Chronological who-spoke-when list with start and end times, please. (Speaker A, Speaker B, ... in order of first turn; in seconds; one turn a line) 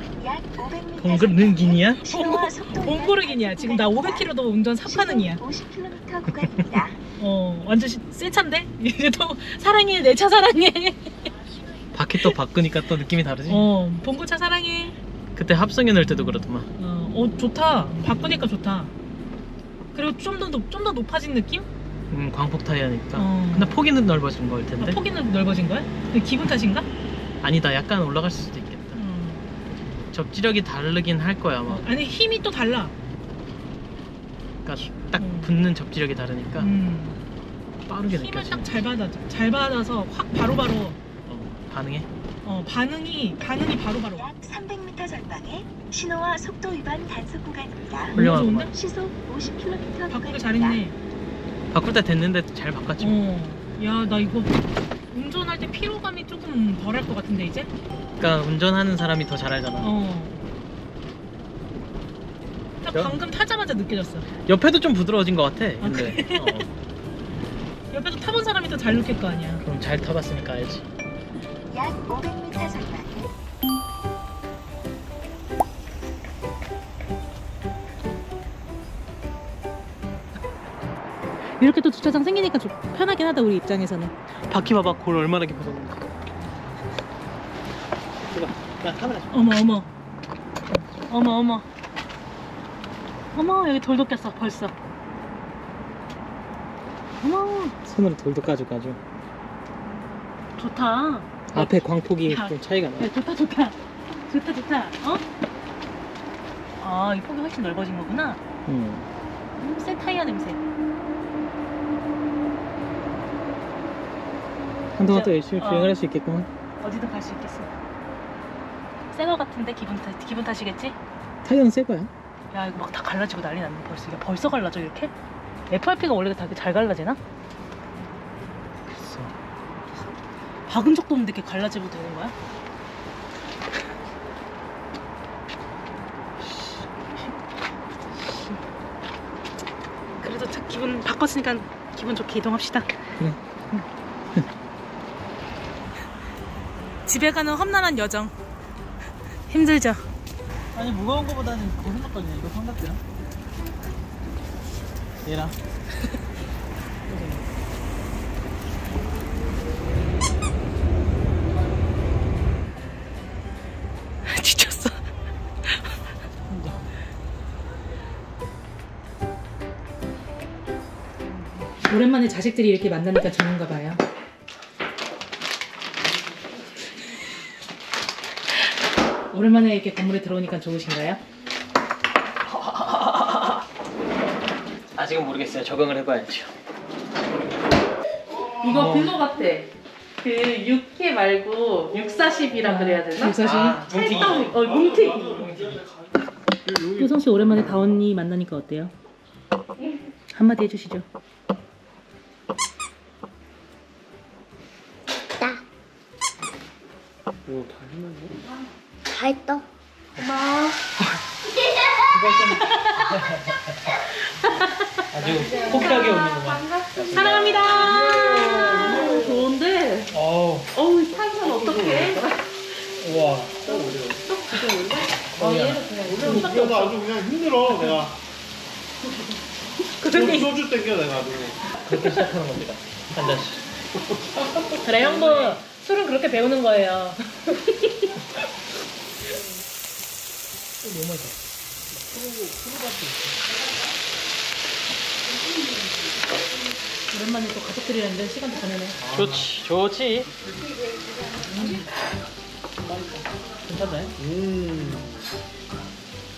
Speaker A: 0.2-4.3
Speaker B: 1.0-2.1
Speaker C: 2.0-5.4
Speaker A: 4.8-7.0
Speaker C: 7.2-11.3
Speaker B: 11.9-13.7
Speaker C: 13.5-15.0
Speaker B: 15.4-16.7
Speaker C: 16.8-18.9
Speaker C: 19.9-21.7
Speaker B: 22.1-25.0
Speaker C: 23.1-23.8
Speaker C: 24.8-26.9
Speaker B: 27.4-29.0
Speaker C: 28.9-29.5
Speaker B: 30.1-31.9
Speaker C: 31.7-32.9
Speaker B: 34.6-36.7
Speaker C: 35.2-35.5
Speaker C: 36.6-37.2
Speaker B: 37.9-38.8
Speaker C: 38.1-41.0
Speaker B: 41.3-42.1
Speaker C: 42.5-44.3
Speaker A: 44.2-48.2
Speaker C: 48.1-48.7
Speaker B: 48.1-48.7
Speaker A: 48.7-50.8
Speaker C: 50.1-51.0
Speaker B: 51.7-53.2
Speaker C: 53.0-57.7
Speaker B: 58.2-59.9
Speaker C: 59.8-60.4
Speaker C: 62.8-64.3
Speaker B: 62.9-63.2
Speaker B: 64.5-66.7
Speaker C: 65.8-66.6
Speaker C: 67.9-69.6
Speaker B: 69.6-70.9
Speaker A: 71.7-73.3
Speaker C: 81.6-84.1
Speaker B: 84.5-86.1
Speaker B: 88.2-89.4
Speaker C: 89.3-89.9
Speaker C: 90.7-91.7
Speaker C: 93.3-94.7
Speaker C: 97.2-97.8
Speaker B: 97.8-99.0
Speaker C: 100.6-103.8
Speaker B: 101.5-103.1
Speaker C: 104.3-105.2
Speaker C: 106.8-108.4
Speaker B: 108.7-109.1
Speaker C: 109.6-110.6
Speaker B: 115.0-116.5
Speaker C: 115.1-116.0
Speaker C: 116.8-117.7
Speaker C: 119.1-121.0
Speaker B: 121.4-122.1
Speaker C: 122.5-125.1
Speaker C: 125.7-127.2
Speaker B: 128.9-129.3
Speaker C: 130.7-132.3
Speaker B: 136.4-137.3
Speaker C: 140.2-142.9
Speaker C: 147.1-148.3
Speaker C: 149.5-150.1
Speaker B: 150.8-153.0
Speaker B: 155.2-155.6
Speaker C: 157.1-157.4
Speaker C: 164.3-165.0
Speaker B: 166.5-166.8
Speaker C: 171.8-174.0
Speaker C: 179.3-181.2
Speaker B: 182.4-183.6
Speaker B: 184.9-186.5
Speaker C: 188.6-189.7
Speaker B: 188.6-189.2
Speaker C: 190.2-195.6
Speaker D: 191.9-192.3
Speaker B: 192.8-194.7
Speaker B: 195.2-195.8
Speaker E: 196.8-197.7
Speaker C: 196.8-198.9
Speaker C: 200.3-201.1
Speaker E: 207.5-208.3
Speaker D: 209.2-209.6
Speaker B: 210.2-210.5
Speaker B: 212.0-214.0
Speaker C: 212.6-213.2
Speaker B: 215.1-217.8
Speaker D: 215.4-216.7
Speaker C: 217.1-220.1
Speaker E: 217.8-219.5
Speaker B: 220.1-220.7
Speaker C: 220.8-222.3
Speaker D: 220.9-222.2
Speaker E: 221.6-221.9
Speaker B: 223.1-223.6
Speaker E: 223.1-224.3
Speaker D: 224.4-226.6
Speaker C: 224.5-224.9
Speaker B: 225.0-226.6
Speaker E: 226.1-228.1
Speaker C: 226.2-227.0
Speaker C: 227.7-228.1
Speaker C: 229.9-230.7
Speaker E: 230.1-231.6
Speaker B: 231.7-233.7
Speaker C: 234.8-238.1
Speaker B: 240.8-241.4
Speaker E: 242.1-243.2
Speaker C: 247.1-249.0
Speaker B: 249.0-250.3
Speaker B: 251.6-251.8
Speaker B: 252.8-254.2
Speaker E: 254.3-255.0